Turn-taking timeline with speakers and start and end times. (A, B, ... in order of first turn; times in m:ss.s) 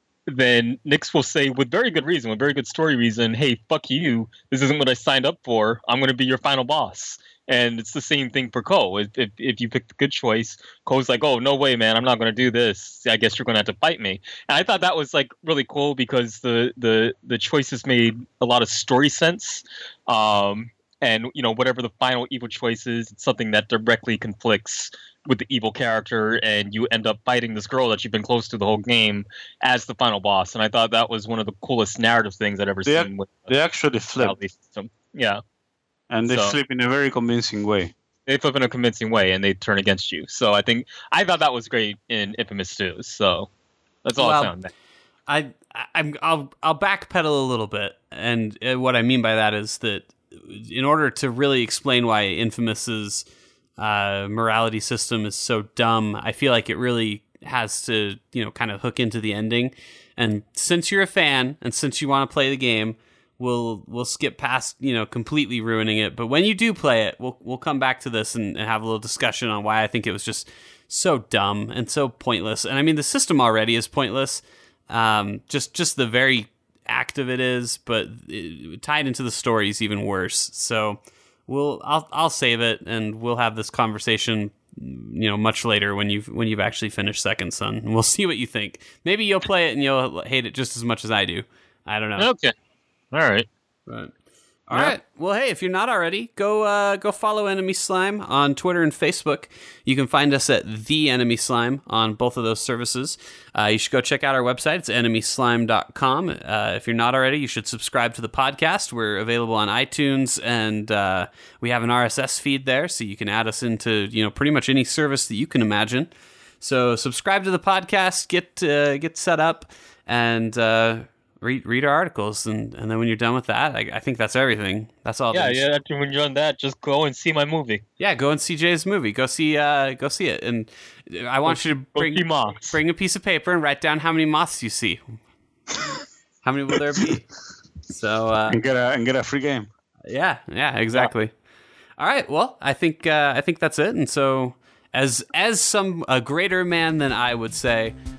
0:00.3-0:33.5 A
0:32.9-0:34.4 B
0:34.2-0:35.4 A
0:36.1-0:37.9 B
0:36.3-0:36.6 A
0:38.3-0:43.5 A
0:44.0-0:44.7 A
0:44.2-0:44.5 C
0:45.3-0:53.2 C
0:53.8-1:32.3 C
1:32.2-1:32.5 A
1:33.1-1:33.5 A
1:33.9-1:34.1 C
1:34.7-1:56.1 C
1:56.6-2:05.6 C
2:05.3-2:07.8 A
2:08.0-2:15.1 C
2:11.5-2:12.8 A
2:16.4-2:17.3 C
2:17.9-2:18.6 C
2:18.5-2:19.7 B
2:20.1-2:21.3 C
2:22.0-2:28.0 C